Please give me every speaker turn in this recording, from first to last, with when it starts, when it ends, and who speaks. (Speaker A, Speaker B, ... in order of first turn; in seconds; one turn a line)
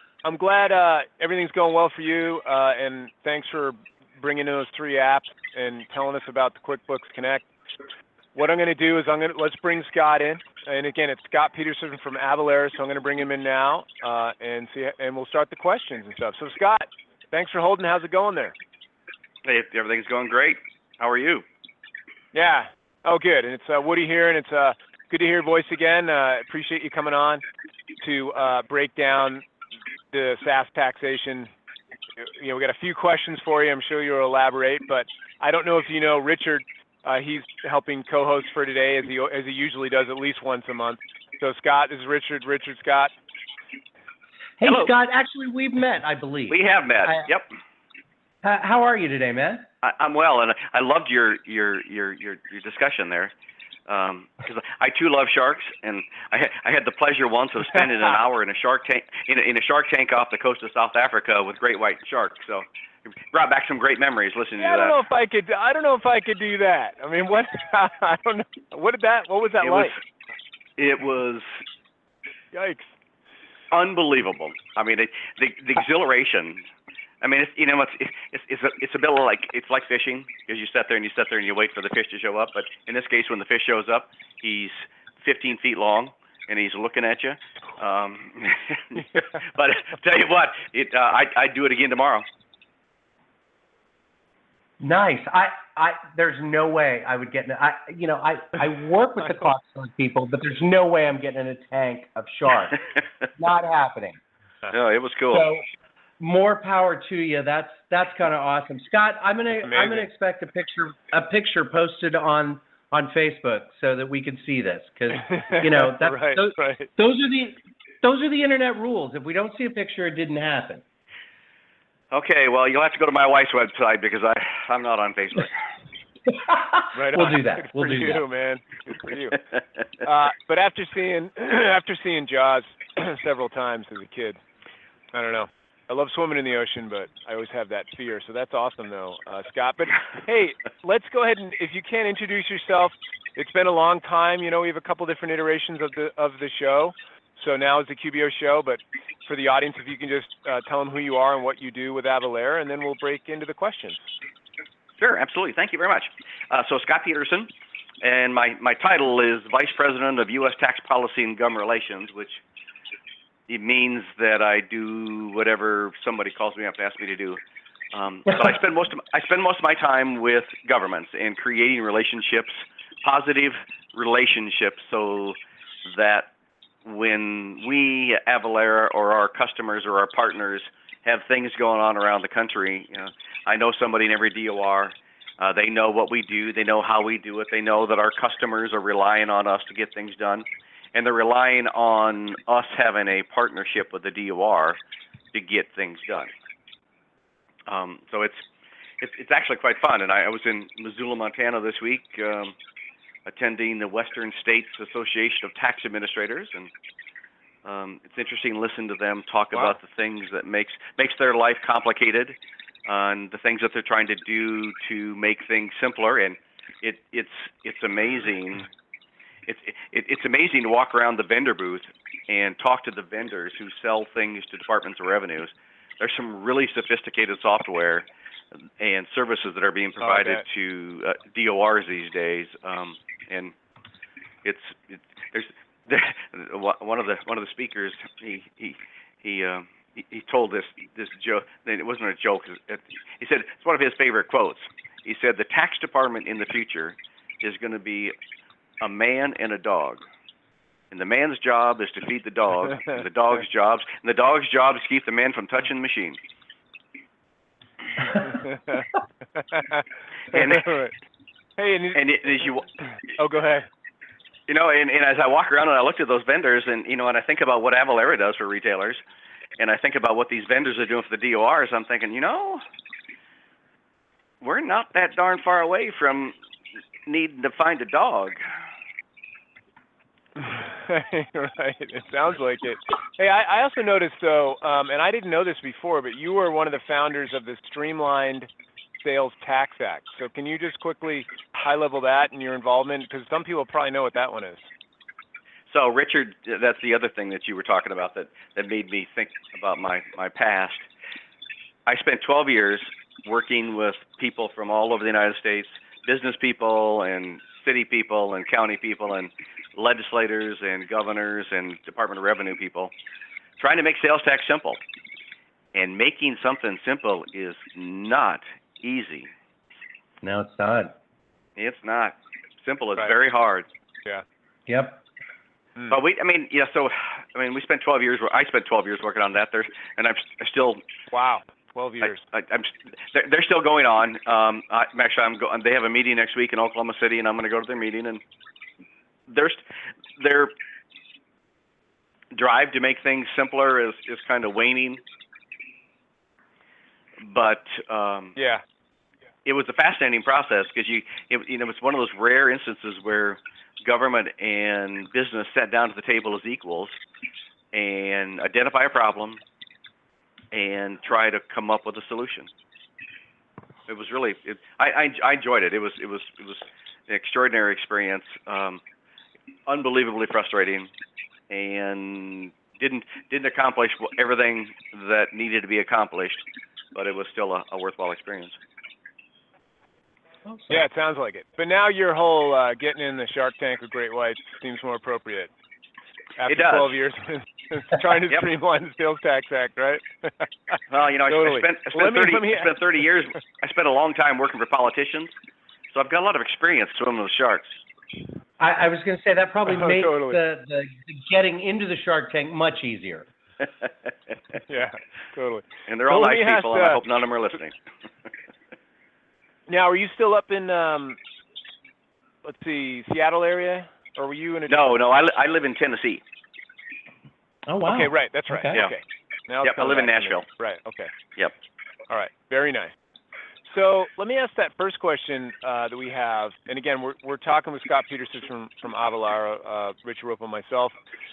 Speaker A: 0.2-7.5
Speaker A: 8.3-18.6
Speaker B: 19.4-21.4
Speaker A: 22.3-27.4
Speaker A: 28.0-29.4
Speaker A: 30.1-31.5
Speaker A: 32.2-43.1
Speaker C: 44.6-47.3
Speaker B: 44.6-44.9
Speaker B: 46.5-47.5
Speaker C: 48.4-49.7
Speaker B: 49.8-53.3
Speaker B: 53.9-65.0
Speaker A: 64.6-70.0
Speaker B: 69.6-70.0
Speaker B: 70.8-71.6
Speaker A: 72.5-72.9
Speaker B: 73.7-76.7
Speaker B: 77.2-92.3
Speaker C: 94.8-102.8
Speaker C: 103.4-104.2
Speaker B: 104.7-105.5
Speaker C: 105.3-105.7
Speaker C: 106.2-120.8
Speaker A: 109.7-110.1
Speaker A: 115.2-116.9
Speaker B: 122.1-125.6
Speaker C: 126.3-128.2
Speaker A: 126.9-129.4
Speaker A: 130.0-134.4
Speaker A: 135.1-154.0
Speaker B: 155.0-157.5
Speaker B: 158.0-162.4
Speaker B: 163.5-167.4
Speaker B: 167.9-176.3
Speaker B: 176.8-194.8
Speaker B: 195.3-196.3
Speaker B: 197.7-198.4
Speaker B: 199.0-202.5
Speaker B: 203.3-206.7
Speaker B: 207.6-218.7
Speaker B: 219.5-228.1
Speaker B: 228.8-233.5
Speaker A: 230.0-230.4
Speaker B: 234.4-248.1
Speaker B: 248.8-250.0
Speaker B: 250.9-256.2
Speaker A: 258.2-260.9
Speaker B: 260.3-260.6
Speaker A: 261.6-262.0
Speaker B: 261.9-262.7
Speaker A: 263.1-263.7
Speaker B: 264.5-269.0
Speaker B: 269.6-272.6
Speaker B: 274.4-276.4
Speaker B: 277.1-278.4
Speaker A: 280.4-288.5
Speaker A: 289.0-294.7
Speaker B: 295.7-300.9
Speaker B: 301.9-312.9
Speaker B: 313.6-314.8
Speaker B: 315.7-319.3
Speaker C: 320.2-320.9
Speaker B: 321.6-323.7
Speaker C: 324.7-325.0
Speaker B: 325.9-330.8
Speaker A: 331.1-332.2
Speaker B: 332.0-338.2
Speaker B: 339.3-339.6
Speaker B: 340.2-340.6
Speaker B: 342.3-345.0
Speaker B: 347.2-348.4
Speaker A: 348.4-348.6
Speaker B: 349.5-356.9
Speaker B: 357.7-359.4
Speaker B: 360.5-362.5
Speaker B: 363.9-368.8
Speaker B: 369.7-370.9
Speaker B: 371.5-378.6
Speaker C: 380.5-380.8
Speaker A: 380.7-385.5
Speaker A: 386.4-392.7
Speaker B: 386.5-386.9
Speaker B: 390.9-395.3
Speaker B: 395.9-397.8
Speaker C: 398.6-403.3
Speaker A: 399.7-400.4
Speaker A: 404.7-407.0
Speaker B: 405.9-407.8
Speaker A: 409.7-411.2
Speaker A: 412.4-415.0
Speaker B: 414.7-416.2
Speaker C: 417.7-418.8
Speaker A: 417.9-421.1
Speaker B: 419.6-420.4
Speaker A: 422.1-422.9
Speaker A: 423.7-430.9